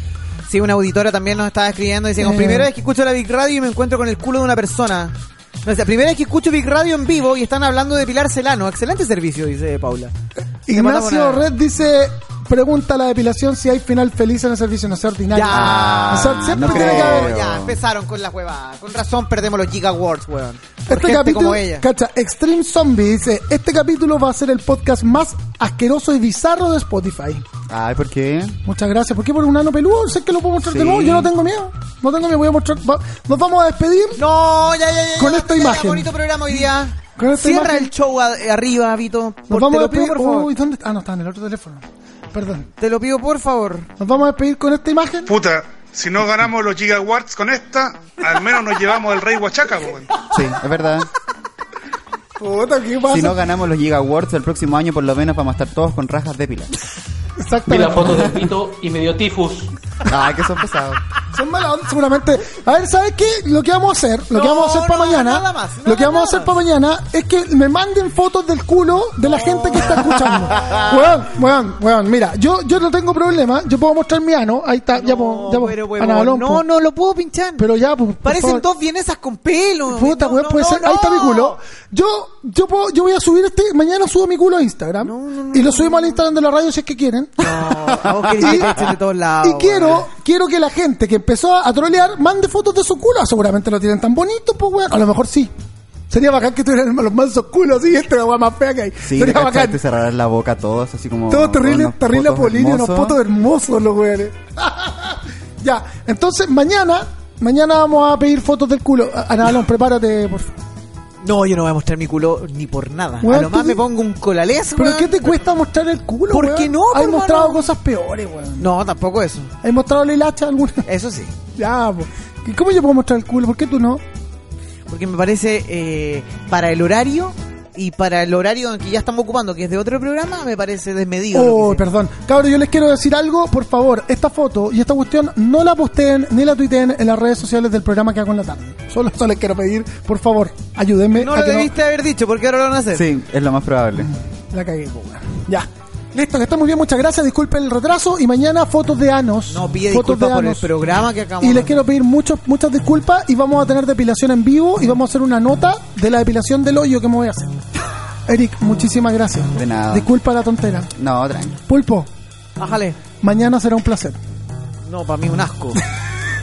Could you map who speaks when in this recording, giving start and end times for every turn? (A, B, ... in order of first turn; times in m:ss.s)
0:00.5-0:10.1 A
0:02.2-0:02.7 B
0:10.7-0:17.5 B
0:10.7-0:11.4 A
0:15.3-0:21.8 A
0:15.5-0:17.8 C
0:20.9-0:27.4 B
0:27.7-0:28.6 C
0:28.6-0:34.2 B
0:30.6-0:31.3 C
0:34.2-0:40.5 A
0:35.2-0:37.9 B
0:39.5-0:42.7 B
0:42.8-0:43.9 A
0:44.0-0:45.4 B
0:45.3-0:50.1 D
0:48.2-0:50.4 B
0:50.3-0:51.1 C
0:52.4-0:53.4 B
0:53.1-0:56.7 C
0:57.4-0:58.4 B
0:57.7-0:59.7 E
1:00.1-1:01.0 C
1:01.3-1:16.6 B
1:04.3-1:06.5 A
1:15.0-1:17.7 A
1:17.6-1:18.6 B
1:18.2-1:21.6 A
1:19.9-1:27.7 B
1:25.0-1:26.2 A
1:27.4-1:30.0 A
1:28.4-1:35.5 B
1:36.1-1:39.8 B
1:39.0-1:43.2 C
1:41.3-1:50.6 B
1:51.2-1:55.4 A
1:53.2-1:53.8 B
1:54.8-1:58.7 B
1:56.3-1:57.6 A
1:58.6-1:59.5 A
1:59.6-2:00.9 B
2:00.9-2:01.4 A
2:01.6-2:04.0 B
2:04.9-2:11.8 A
2:11.3-2:21.8 B
2:21.2-2:23.0 A
2:22.9-2:24.1 C
2:24.0-2:30.7 B
2:29.5-2:31.8 A
2:31.4-2:37.6 B
2:38.3-2:40.9 B
2:39.5-2:40.1 C
2:41.0-2:41.6 C
2:41.6-2:42.1 B
2:42.6-2:43.0 A
2:43.2-2:44.2 B
2:44.8-2:45.8 A